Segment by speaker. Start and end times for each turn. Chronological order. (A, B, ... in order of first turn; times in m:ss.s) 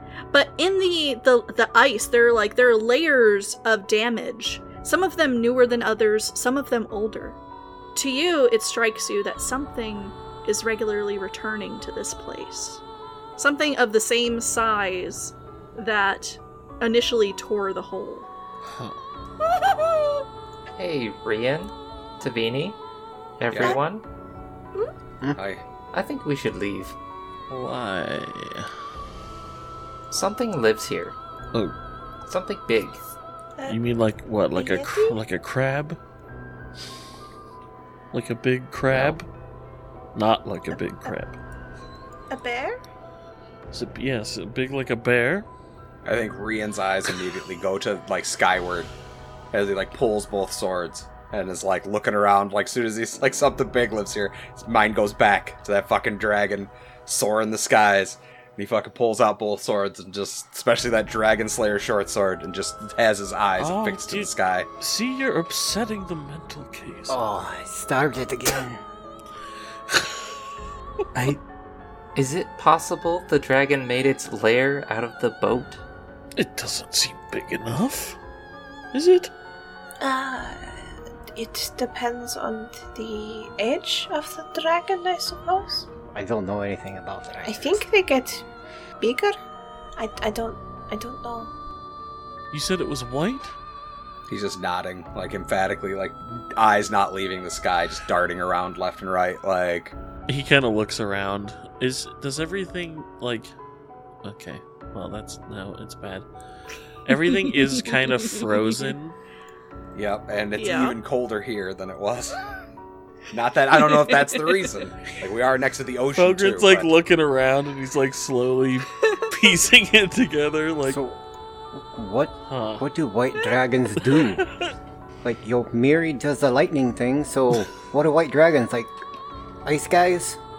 0:00.3-0:07.4 A
0:07.9-0:12.8 A
0:13.4-0:18.3 A
0:18.6-0:19.0 B
0:20.8-0:22.8 C
0:23.4-0:24.0 C
0:23.5-0:23.8 D
0:25.4-0:25.6 D
0:25.9-0:27.0 C
0:27.5-0:28.7 B
0:30.1-0:31.2 C
0:32.2-0:33.0 C
0:33.7-0:36.0 B
0:34.5-0:35.2 E
0:38.1-0:39.2 B
0:40.1-0:41.4 B
0:42.3-0:42.8 E
0:43.7-0:45.5 B
0:46.0-0:48.9 D
0:49.5-1:04.7 D
1:03.6-1:07.2 B
1:07.1-1:08.8 F
1:09.9-1:10.2 B
1:11.1-1:11.4 C
1:12.1-1:15.8 C
1:16.4-1:18.2 B
1:18.9-1:19.3 B
1:20.0-1:20.6 E
1:21.3-1:25.8 E
1:26.1-1:27.8 F
1:27.4-1:28.4 E
1:29.0-1:29.4 E
1:30.0-1:31.5 E
1:32.5-1:33.5 B
1:34.3-1:39.9 D
1:40.3-1:43.5 B
1:44.2-1:46.3 B
1:47.0-1:49.1 B
1:47.3-1:48.8 A
1:49.9-1:52.4 D
1:50.6-1:51.0 A
1:53.3-1:56.9 D
1:56.2-2:01.0 B
2:00.9-2:01.2 F
2:01.7-2:04.4 F
2:02.5-2:02.8 B
2:04.0-2:04.7 B
2:05.2-2:08.9 F
2:09.6-2:10.4 F